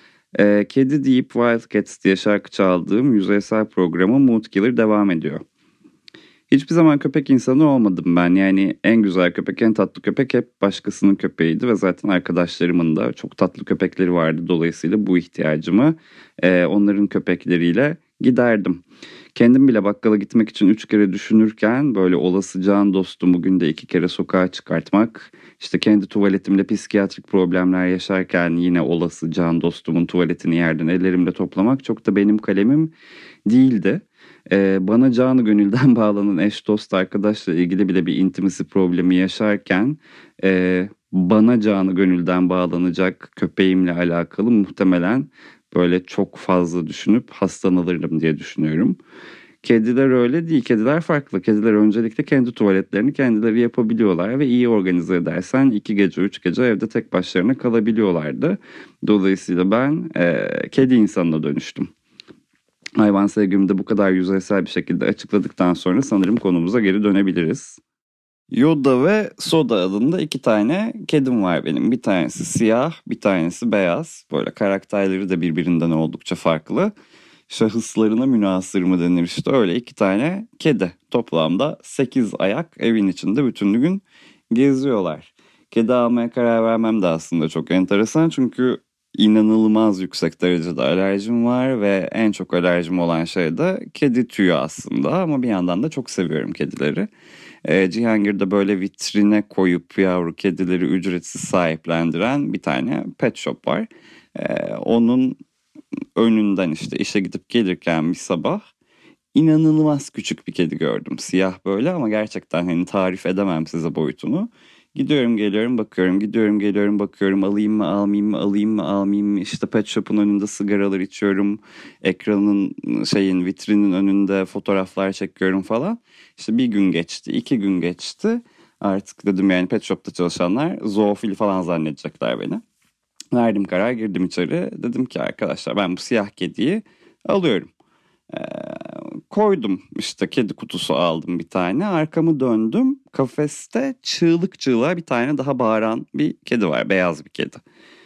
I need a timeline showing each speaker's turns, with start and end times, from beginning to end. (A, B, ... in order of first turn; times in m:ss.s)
0:00.3-0:05.4 A
0:06.5-0:32.9 A
0:33.4-0:49.0 A
0:49.6-1:01.9 A
1:03.0-1:07.8 A
1:08.5-1:16.9 A
1:17.5-1:37.1 A
1:37.6-1:45.4 A
1:46.2-1:48.6 A
1:49.3-2:12.6 A
2:13.3-2:17.7 A
2:18.3-2:27.6 A